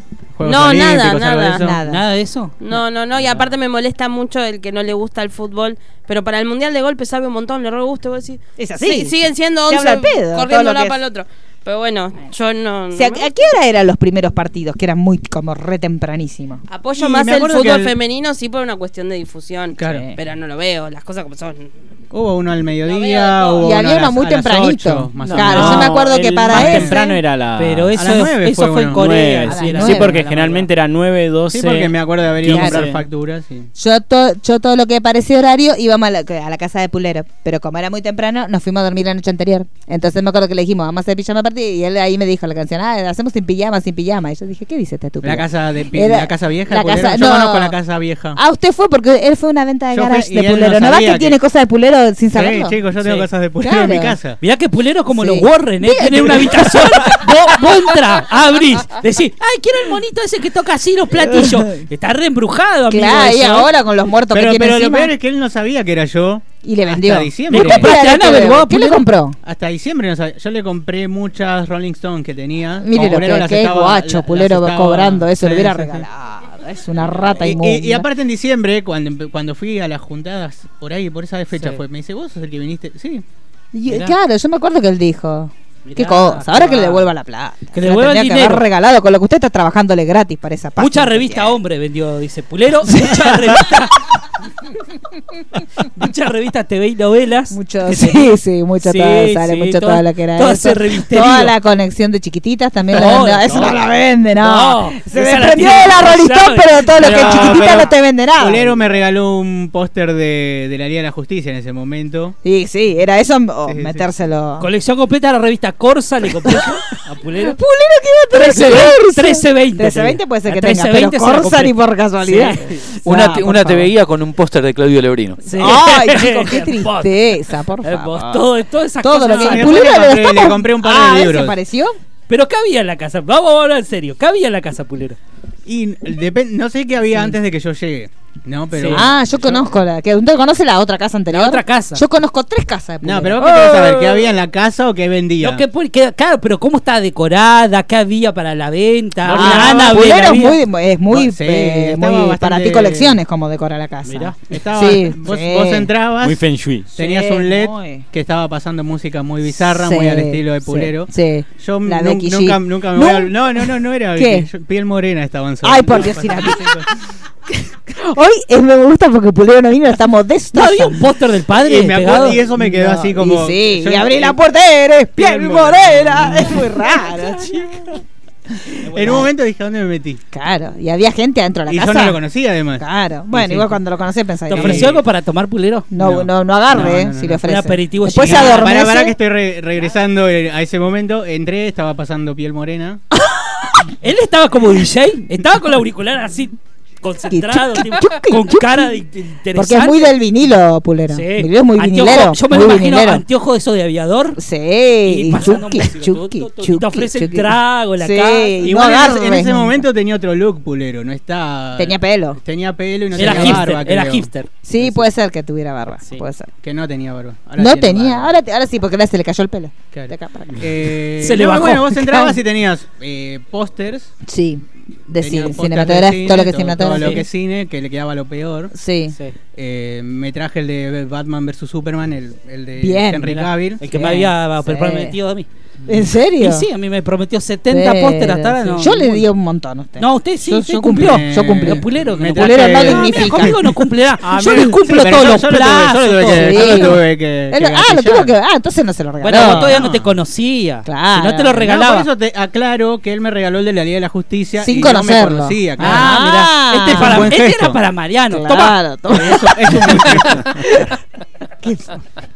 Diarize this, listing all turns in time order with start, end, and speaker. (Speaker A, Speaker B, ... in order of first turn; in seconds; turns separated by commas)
Speaker A: 0.4-1.8, Speaker B: 0.4-1.7, Speaker C: 1.6-2.0, Speaker D: 1.9-2.6, Speaker B: 2.6-13.3, Speaker C: 8.6-9.1, Speaker C: 9.7-11.0, Speaker C: 12.9-16.6, Speaker B: 16.7-21.7, Speaker A: 17.0-17.9, Speaker A: 19.8-20.1, Speaker C: 19.9-20.1, Speaker A: 22.1-25.9, Speaker B: 22.8-23.7, Speaker C: 23.6-27.2, Speaker E: 25.2-28.1, Speaker A: 26.5-27.0, Speaker D: 27.6-30.7, Speaker A: 27.9-29.0, Speaker E: 28.9-33.0, Speaker C: 29.5-30.2, Speaker A: 31.5-33.7, Speaker C: 32.4-32.8, Speaker C: 33.8-47.8, Speaker A: 45.2-48.4, Speaker C: 48.3-52.8, Speaker A: 49.9-51.4, Speaker A: 52.3-54.4, Speaker D: 53.0-53.3, Speaker C: 53.6-54.2, Speaker D: 54.4-63.7, Speaker C: 55.1-57.8, Speaker C: 61.1-61.8, Speaker C: 62.9-65.1, Speaker A: 64.3-67.9, Speaker C: 66.6-69.4, Speaker D: 67.5-69.0, Speaker A: 69.4-76.0, Speaker C: 72.8-78.1, Speaker A: 77.4-83.2, Speaker D: 81.5-81.8, Speaker C: 83.7-91.5, Speaker D: 83.9-84.1, Speaker D: 85.8-87.1, Speaker D: 87.7-88.7, Speaker D: 90.8-94.1, Speaker C: 92.8-93.7, Speaker D: 95.8-101.5, Speaker C: 97.5-108.7, Speaker D: 102.9-103.8, Speaker D: 104.4-107.6, Speaker A: 107.0-112.3, Speaker C: 112.4-114.7, Speaker A: 113.7-114.0, Speaker D: 114.6-117.6, Speaker C: 116.4-116.7, Speaker C: 117.3-123.9, Speaker D: 118.3-122.7, Speaker F: 123.0-125.4, Speaker D: 125.4-129.9, Speaker C: 125.5-128.5, Speaker C: 129.0-132.0, Speaker A: 129.3-131.6, Speaker D: 132.3-135.2, Speaker A: 135.7-139.6, Speaker D: 138.7-139.1, Speaker C: 138.9-144.0, Speaker D: 141.3-142.0, Speaker A: 143.0-145.6, Speaker D: 143.4-144.3, Speaker D: 145.4-150.6, Speaker A: 149.2-150.0, Speaker C: 149.3-155.9, Speaker A: 151.1-153.2, Speaker D: 154.1-154.3, Speaker A: 154.5-156.4, Speaker E: 156.2-156.9, Speaker A: 156.9-166.9, Speaker C: 157.0-158.0, Speaker C: 159.5-164.5, Speaker C: 165.6-166.8, Speaker C: 167.5-171.0, Speaker D: 170.5-172.4, Speaker A: 171.5-174.4, Speaker C: 172.4-177.8, Speaker A: 175.2-176.7, Speaker A: 178.9-180.2, Speaker C: 178.9-179.3, Speaker C: 180.3-182.2, Speaker A: 181.7-182.8, Speaker C: 182.8-185.0, Speaker D: 184.5-185.9, Speaker A: 184.5-185.0, Speaker C: 185.9-189.2, Speaker A: 186.0-187.4, Speaker D: 187.4-188.6, Speaker A: 188.2-193.0, Speaker D: 194.0-200.1, Speaker C: 197.3-203.2, Speaker D: 201.1-204.4, Speaker C: 204.3-209.8, Speaker D: 205.0-208.6, Speaker A: 208.6-214.3, Speaker C: 211.8-212.4, Speaker D: 213.1-214.5, Speaker C: 213.2-213.6, Speaker C: 214.6-216.5, Speaker A: 216.6-218.3, Speaker C: 217.6-220.7, Speaker A: 219.9-224.1, Speaker D: 221.2-222.3, Speaker C: 224.2-227.2, Speaker A: 225.2-228.7, Speaker D: 227.0-227.2, Speaker C: 228.7-229.2, Speaker A: 229.5-233.8, Speaker C: 232.8-235.1, Speaker D: 233.8-235.5, Speaker C: 235.9-236.7, Speaker D: 236.4-239.2, Speaker C: 237.7-243.6, Speaker A: 238.7-239.0, Speaker D: 240.0-247.0, Speaker A: 240.9-248.3, Speaker C: 246.2-249.8, Speaker D: 249.2-252.1, Speaker A: 249.3-250.1, Speaker C: 250.8-251.7, Speaker A: 251.6-256.2, Speaker C: 254.6-257.3, Speaker D: 255.8-258.8, Speaker A: 256.8-257.8, Speaker C: 258.3-260.9, Speaker A: 259.1-260.8, Speaker C: 261.6-262.0